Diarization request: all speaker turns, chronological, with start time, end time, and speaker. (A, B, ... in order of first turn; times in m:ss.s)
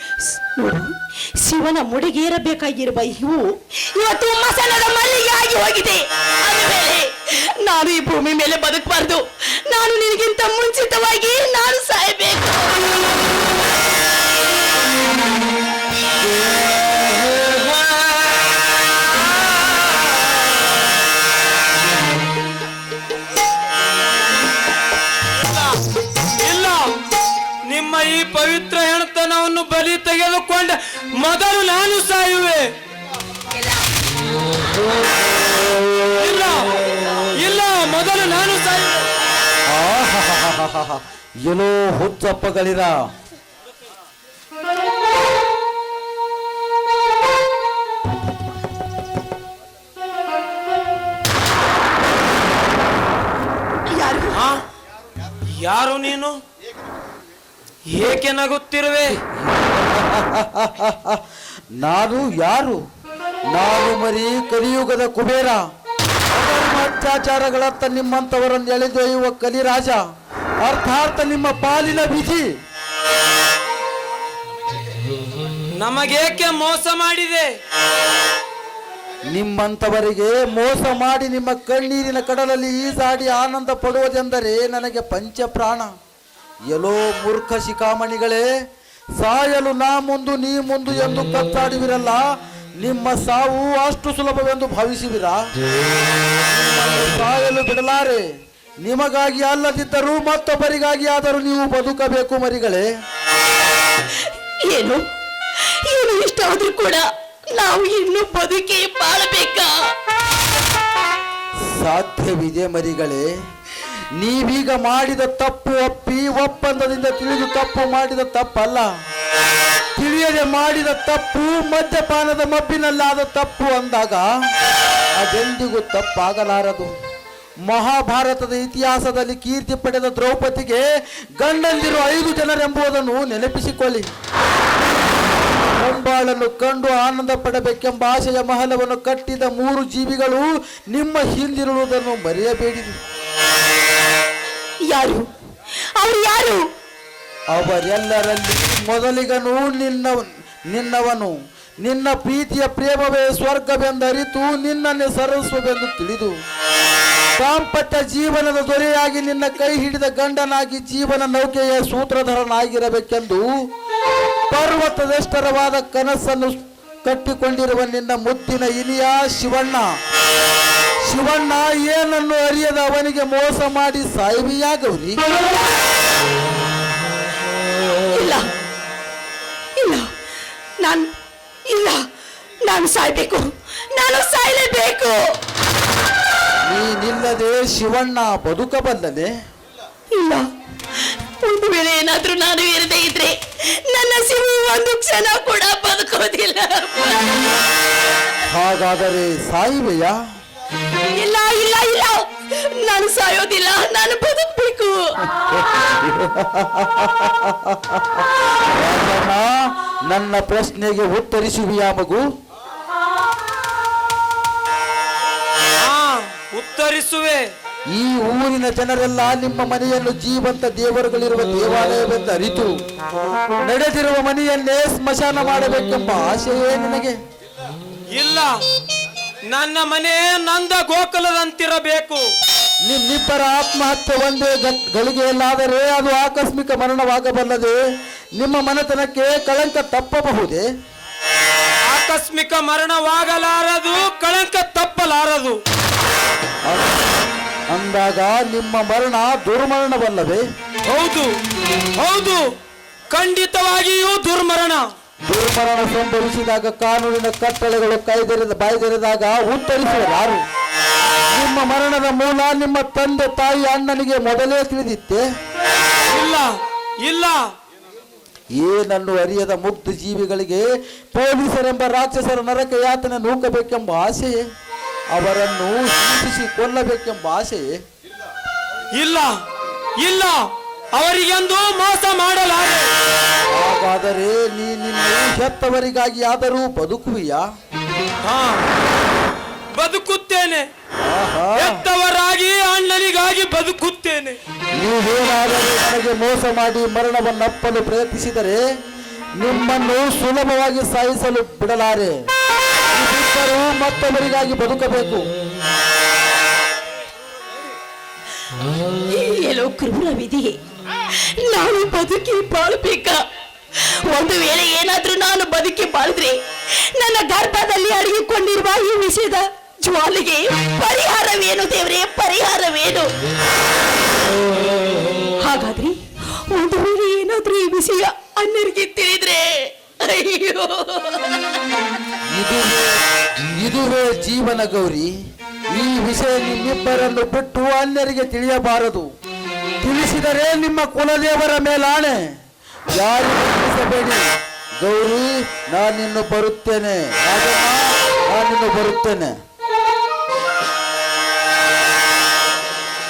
0:00.3-0:12.7 A
0:17.2-0:18.0 B
0:25.4-0:25.8 B
0:26.4-0:26.9 B
0:27.7-0:32.7 B
0:36.1-0:36.7 B
0:37.4-0:39.1 B
0:39.7-0:43.0 C
0:53.9-0:54.4 A
0:54.3-0:54.6 B
0:55.5-0:56.4 B
0:57.9-0:59.2 B
0:59.1-1:01.2 C
1:01.7-1:02.8 C
1:03.5-1:05.6 C
1:06.3-1:10.0 C
1:10.6-1:12.5 C
1:15.7-1:17.5 B
1:19.3-1:25.9 C
1:26.7-1:28.4 C
1:29.2-1:32.2 C
1:32.8-1:35.4 C
1:36.4-1:38.3 C
1:38.8-1:42.8 C
1:44.6-1:45.0 A
1:45.6-1:49.7 A
1:51.7-1:53.3 C
1:54.1-1:58.9 C
2:00.0-2:04.5 C
2:05.2-2:06.9 C
2:07.7-2:10.8 C
2:11.4-2:14.1 C
2:15.8-2:23.0 C
2:24.9-2:25.2 A
2:26.0-2:26.6 A
2:27.5-2:36.3 C
2:37.4-2:43.5 C
2:44.5-2:49.8 C
2:51.1-2:55.2 C
2:58.1-2:58.5 A
2:59.8-3:00.1 A
3:00.8-3:01.1 A
3:01.7-3:02.0 A
3:02.6-3:05.2 A
3:06.7-3:09.3 C
3:10.1-3:10.4 A
3:11.4-3:17.2 A
3:18.5-3:20.2 C
3:21.2-3:22.2 A
3:22.8-3:25.1 A
3:25.4-3:32.2 C
3:35.8-3:37.5 B
3:37.9-3:42.7 C
3:43.6-3:47.2 C
3:48.1-3:48.5 B
3:49.5-3:52.3 B
3:52.8-3:57.8 C
3:58.4-4:00.7 C
4:01.9-4:05.6 B
4:06.6-4:07.1 C
4:07.7-4:10.4 C
4:10.9-4:11.3 B
4:12.0-4:12.5 B
4:13.1-4:14.9 B
4:15.2-4:20.4 C
4:21.3-4:25.2 C
4:26.1-4:27.5 B
4:28.5-4:34.4 C
4:35.1-4:37.7 C
4:39.0-4:39.4 B
4:40.0-4:42.9 B
4:43.5-4:47.4 C
4:48.2-4:48.7 B
4:49.7-4:50.7 B
4:51.0-4:51.8 C
4:51.5-4:54.4 B
4:54.7-4:58.6 C
4:59.4-5:02.2 C
5:02.9-5:05.3 C
5:09.1-5:10.5 A
5:11.1-5:13.2 A
5:13.8-5:16.4 A
5:16.9-5:23.1 A
5:25.4-5:29.5 A
5:30.0-5:31.2 A
5:32.3-5:35.1 C
5:35.7-5:39.1 C
5:39.8-5:42.2 C
5:42.9-5:44.2 C
5:44.8-5:49.3 C